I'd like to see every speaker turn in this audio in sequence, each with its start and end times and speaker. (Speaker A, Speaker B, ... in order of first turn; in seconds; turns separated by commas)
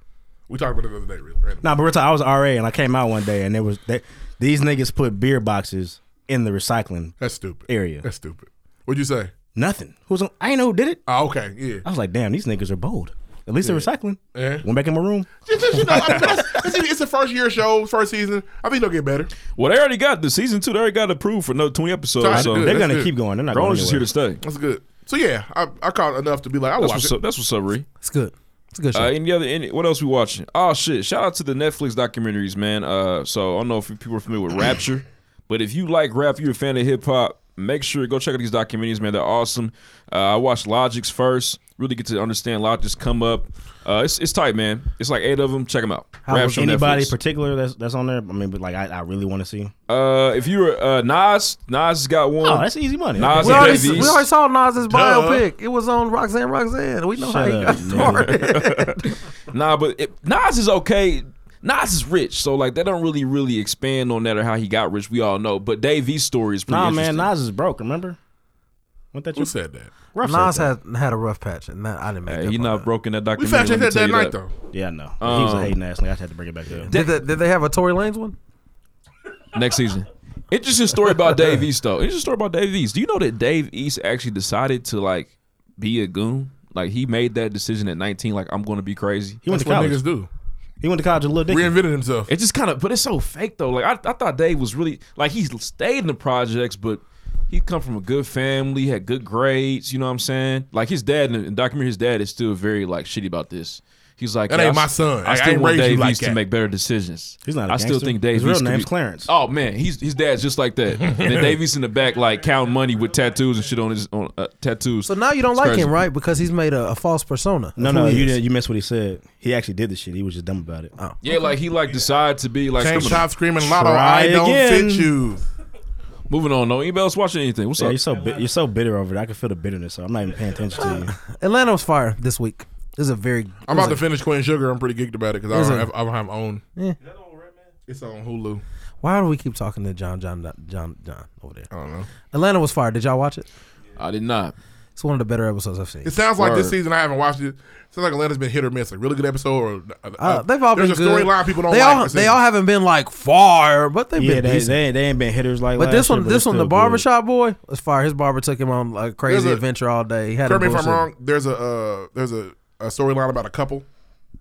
Speaker A: 0.5-1.6, Speaker B: 1.6-7.2, Speaker A: 7.2-9.3, Speaker B: 7.7-8.1, Speaker B: 9.5-11.0, Speaker A: 11.1-11.8, Speaker B: 11.8-16.7, Speaker A: 13.6-14.6, Speaker A: 15.4-19.3, Speaker C: 19.6-22.8, Speaker A: 22.2-23.1, Speaker B: 22.3-24.1, Speaker C: 23.5-24.4, Speaker A: 24.4-27.1, Speaker C: 26.8-27.9, Speaker D: 28.0-29.1, Speaker C: 28.9-47.1, Speaker D: 46.3-46.6, Speaker B: 46.3-49.7, Speaker C: 49.9-54.2, Speaker B: 52.4-54.1, Speaker D: 53.3-59.1, Speaker A: 54.8-55.5, Speaker B: 57.2-58.6, Speaker C: 57.9-67.3, Speaker B: 66.7-68.2, Speaker B: 69.1-69.5, Speaker A: 69.3-69.9, Speaker B: 70.1-70.7, Speaker D: 70.2-72.8, Speaker C: 72.3-74.3, Speaker A: 73.4-74.5, Speaker B: 74.7-76.9, Speaker C: 75.2-75.8, Speaker D: 76.9-78.4, Speaker C: 76.9-77.2, Speaker C: 79.5-89.4, Speaker B: 89.4-90.0, Speaker A: 89.5-90.3, Speaker B: 90.8-91.8, Speaker A: 91.5-92.3, Speaker C: 92.3-115.9, Speaker A: 104.5-106.4, Speaker B: 107.4-109.3, Speaker A: 111.0-111.5, Speaker E: 112.5-113.4, Speaker D: 115.0-118.3, Speaker B: 117.8-120.9, Speaker C: 121.2-123.3, Speaker A: 122.8-125.4, Speaker B: 123.6-125.1, Speaker C: 126.3-128.0, Speaker B: 127.8-131.1, Speaker E: 128.1-128.5, Speaker E: 130.7-131.0, Speaker D: 131.2-134.0, Speaker A: 133.7-136.6, Speaker D: 135.5-135.9, Speaker E: 137.0-137.7, Speaker A: 137.9-138.6, Speaker D: 139.0-141.7, Speaker A: 141.7-142.1, Speaker D: 142.3-143.5, Speaker C: 144.0-144.5, Speaker D: 144.9-146.1, Speaker A: 146.0-152.4, Speaker C: 146.4-146.8, Speaker D: 150.2-154.8, Speaker B: 154.2-157.1, Speaker D: 155.8-161.1, Speaker A: 159.2-159.6, Speaker A: 160.4-163.8